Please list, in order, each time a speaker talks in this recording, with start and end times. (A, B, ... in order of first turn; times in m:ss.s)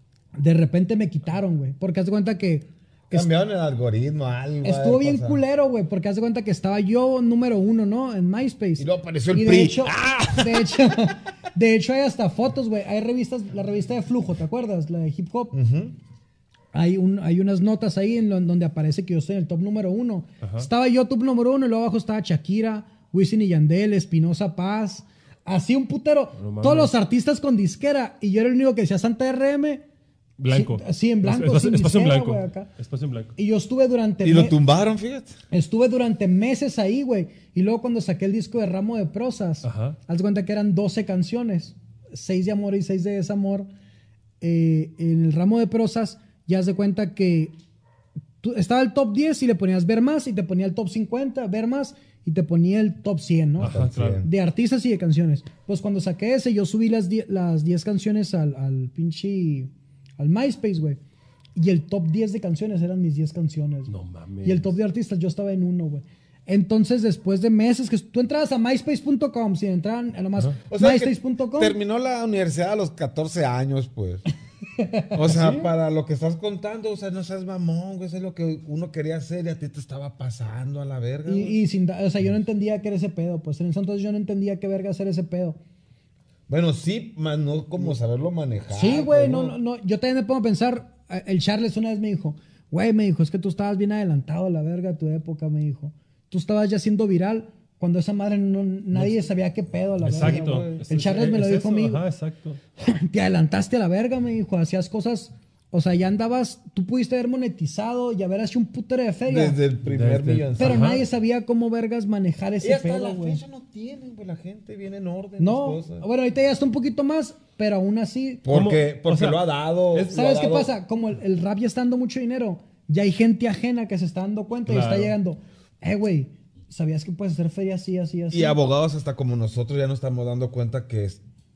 0:00.4-0:03.3 A
0:03.1-0:05.4 B
0:04.6-0:15.6 A
0:08.8-0:10.7 B
0:15.5-0:16.0 B
0:16.7-0:29.8 A
0:20.4-0:20.7 C
0:26.4-0:26.9 C
0:30.4-0:33.3 C
0:30.5-0:32.7 A
0:33.4-0:34.6 A
0:34.2-0:35.4 B
0:35.5-0:43.7 A
0:39.6-0:40.0 C
0:44.4-0:47.5 A
0:48.4-1:01.0 A
0:53.6-0:54.2 C
0:53.6-0:54.3 B
1:01.6-1:03.9 A
1:03.9-1:04.7 C
1:04.4-1:11.8 A
1:10.7-1:14.2 B
1:14.8-1:15.7 A
1:15.1-1:21.6 B
1:21.3-1:25.6 A
1:26.5-1:29.6 B
1:28.7-1:42.0 A
1:40.0-1:42.6 C
1:40.1-1:40.8 B
1:42.8-1:49.6 A
1:49.3-1:51.0 B
1:49.8-1:51.0 C
1:50.6-1:53.4 A
1:52.6-1:56.1 B
1:55.4-1:58.5 A
1:58.4-2:00.7 B
1:58.5-1:59.4 C
1:59.9-2:08.6 A
2:04.7-2:05.2 C
2:08.3-2:11.2 B